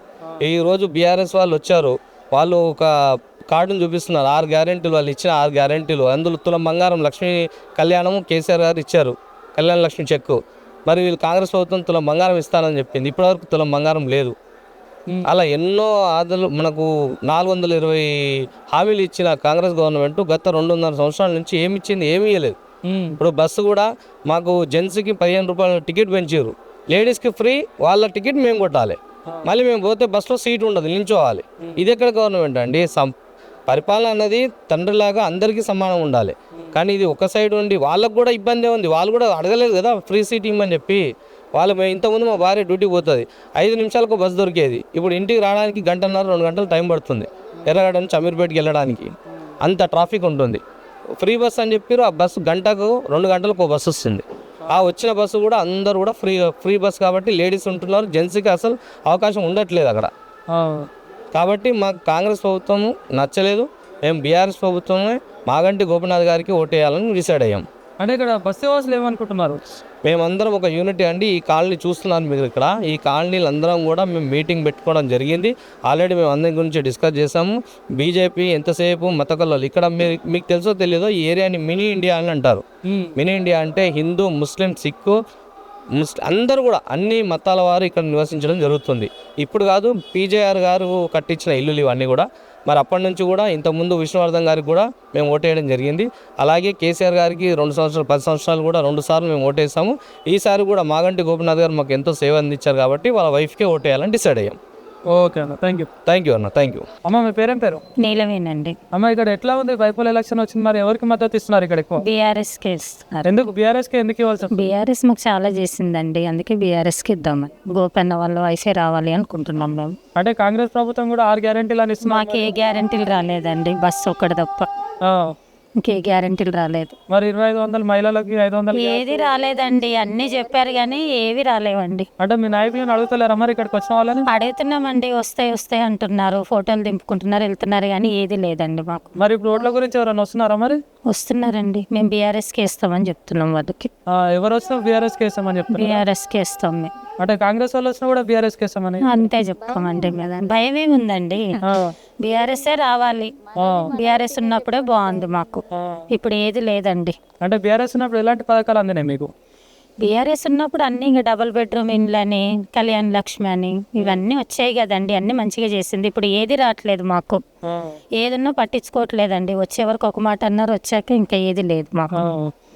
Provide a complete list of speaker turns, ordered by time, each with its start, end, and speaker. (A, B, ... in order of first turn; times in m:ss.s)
0:00.4-0:02.9 A
0:03.5-0:14.3 A
0:15.3-0:22.6 A
0:22.8-0:23.2 B
0:23.2-0:33.1 A
0:33.7-0:41.0 A
0:41.5-0:49.1 A
0:49.6-0:50.6 A
0:51.2-1:00.1 A
1:00.5-1:00.9 B
1:01.3-1:07.6 A
1:08.0-1:09.6 B
1:10.0-1:22.6 A
1:22.9-1:23.2 B
1:23.2-1:25.2 A
1:26.0-1:44.6 A
1:45.1-1:45.9 B
1:46.1-1:46.9 A
1:47.1-1:47.8 B
1:48.0-1:48.8 C
1:48.9-1:52.0 B
1:52.0-1:53.3 C
1:53.2-1:54.6 B
1:54.5-2:00.0 C
2:00.2-2:02.5 B
2:02.0-2:04.7 C
2:05.0-2:05.4 B
2:05.8-2:06.9 C
2:07.1-2:09.3 B
2:08.7-2:12.1 C
2:12.2-2:14.3 B
2:14.3-2:19.2 C
2:19.2-2:20.8 B
2:21.1-2:23.9 C
2:24.1-2:26.0 B
2:25.7-2:26.9 C
2:27.2-2:29.2 B
2:29.0-2:31.6 C
2:31.6-2:31.9 B
2:32.2-2:33.4 C
2:33.6-2:34.0 B
2:34.0-2:37.2 C
2:35.8-2:36.0 B
2:37.4-2:39.3 B
2:40.0-2:47.4 C
2:47.7-2:48.0 B
2:48.2-2:52.3 C
2:52.1-2:52.5 B